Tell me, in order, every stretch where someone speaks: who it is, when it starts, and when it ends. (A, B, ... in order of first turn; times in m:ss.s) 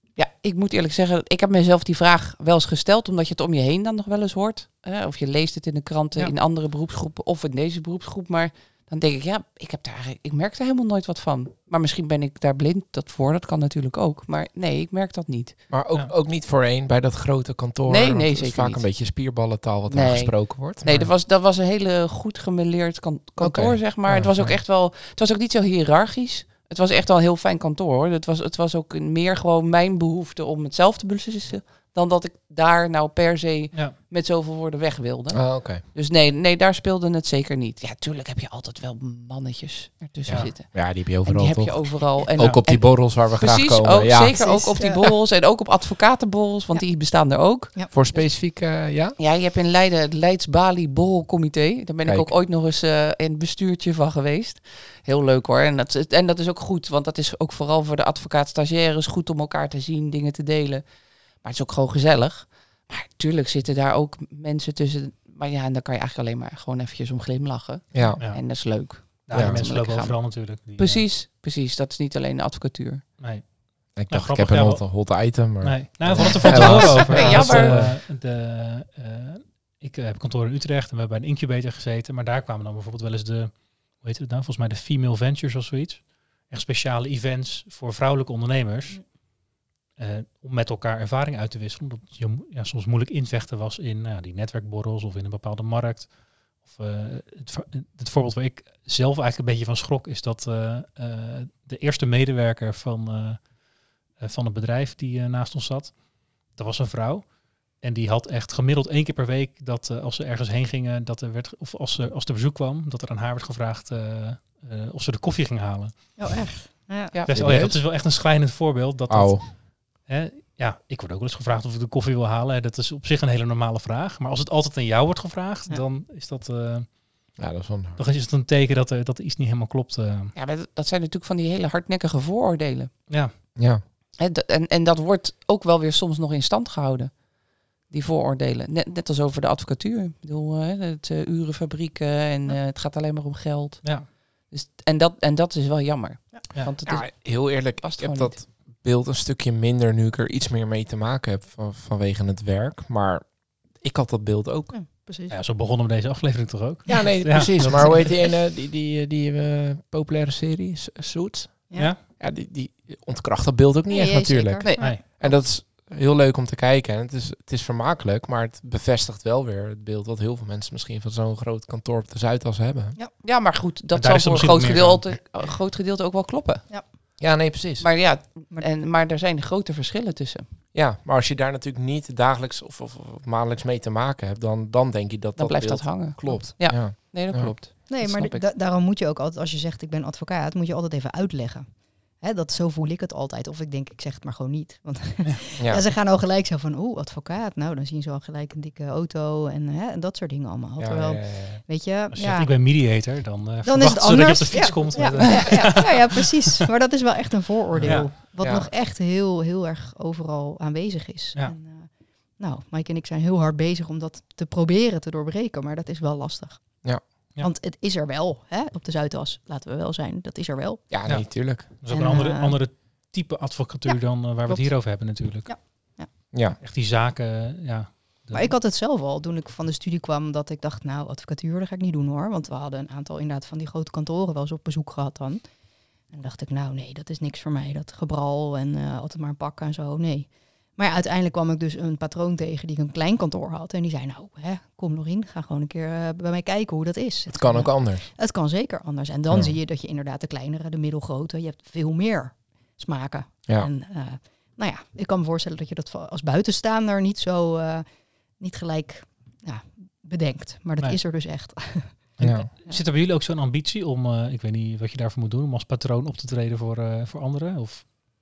0:00.2-0:15.7 A
0:15.7-0:21.1 B
0:17.9-0:48.3 A
0:23.4-0:24.6 B
0:35.3-0:35.8 B
0:40.2-0:44.4 B
0:44.3-0:45.2 C
0:46.7-0:47.0 C
0:47.5-0:47.9 C
0:47.9-0:49.2 B
0:49.2-1:13.1 A
0:52.0-0:52.3 B
1:07.9-1:08.2 B
1:08.2-1:11.1 D
1:09.3-1:09.6 B
1:13.2-1:29.4 D
1:13.9-1:18.0 B
1:16.2-1:17.9 A
1:29.9-1:56.6 D
1:56.2-1:57.1 C
1:57.3-2:07.4 D
1:57.3-1:57.8 B
1:59.1-1:59.4 B
2:07.4-2:08.0 B
2:08.0-2:10.4 D
2:10.4-2:13.5 A
2:13.1-2:13.3 D
2:13.6-2:13.8 B
2:14.2-2:28.4 A
2:23.8-2:24.1 D
2:26.8-2:34.8 B
2:34.7-2:35.4 C
2:35.3-2:38.0 D
2:36.9-2:53.0 B
2:43.9-2:45.5 C
2:53.2-2:57.0 A
2:53.9-2:55.2 D
2:57.2-2:57.9 B
2:57.8-3:00.5 A
3:00.7-3:07.6 B
3:05.4-3:08.4 A
3:07.9-3:22.8 C
3:15.6-3:15.8 B
3:20.8-3:21.6 B
3:22.1-3:26.2 D
3:23.6-3:42.8 C
3:27.7-3:28.7 B
3:27.9-3:28.1 D
3:40.9-3:41.7 B
3:41.0-3:45.9 D
3:43.9-3:46.1 C
3:46.3-3:46.6 B
3:46.6-3:48.6 D
3:48.3-4:22.8 C
4:07.3-4:08.1 B
4:09.3-4:09.6 B
4:20.8-4:21.0 D
4:22.2-4:27.9 D
4:22.2-4:22.5 B